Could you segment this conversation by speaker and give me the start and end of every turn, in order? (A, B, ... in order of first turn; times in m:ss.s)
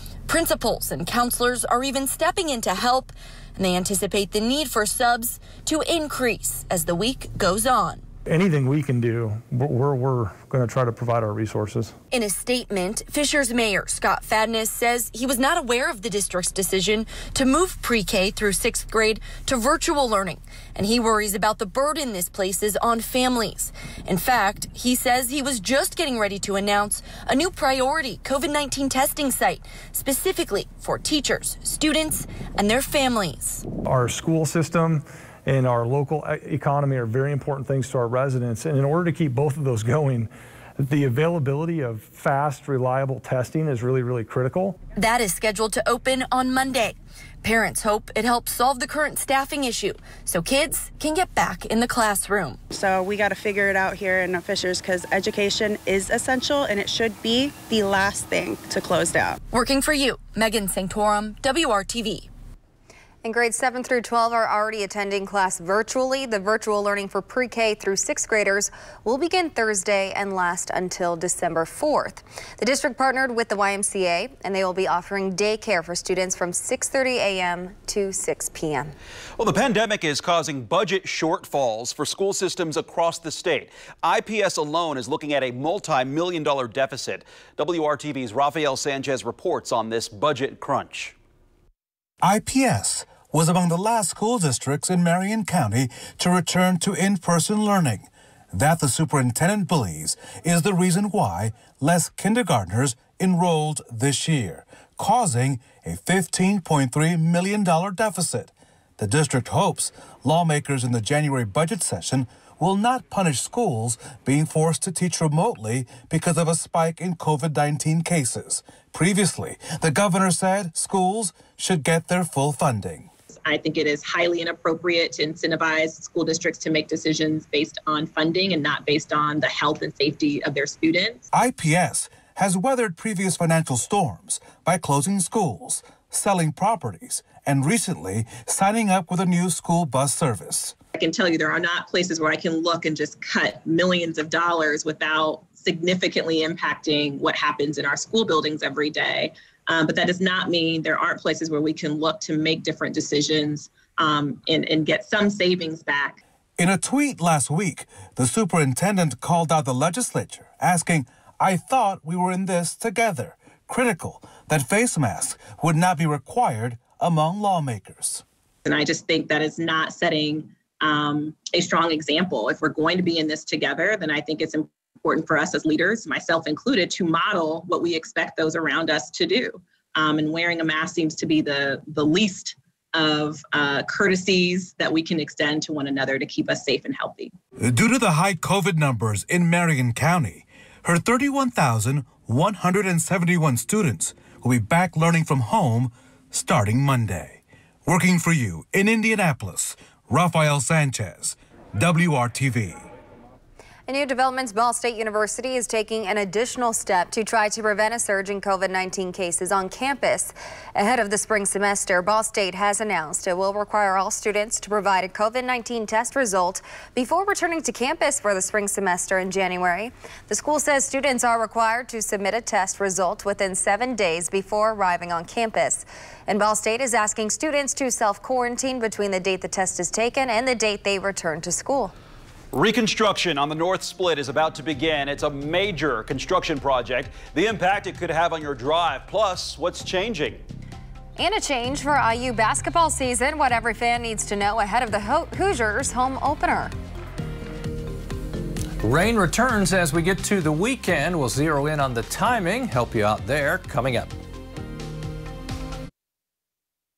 0:00.3-0:08.0 A
0:08.3-0:11.9 B
0:12.1-0:33.7 A
0:33.9-0:44.7 B
0:45.0-0:52.6 A
0:52.7-0:59.4 C
0:59.5-1:02.3 A
1:03.2-1:18.9 D
1:19.4-1:31.2 E
1:32.2-2:03.1 F
2:03.4-2:11.2 G
2:11.3-2:20.8 F
2:21.0-2:36.2 G
2:36.6-2:48.2 F
2:48.7-3:07.3 G
3:07.6-3:22.9 F
3:23.9-3:51.9 D
3:52.5-4:00.4 E
4:01.2-4:06.7 D
4:08.8-4:14.1 H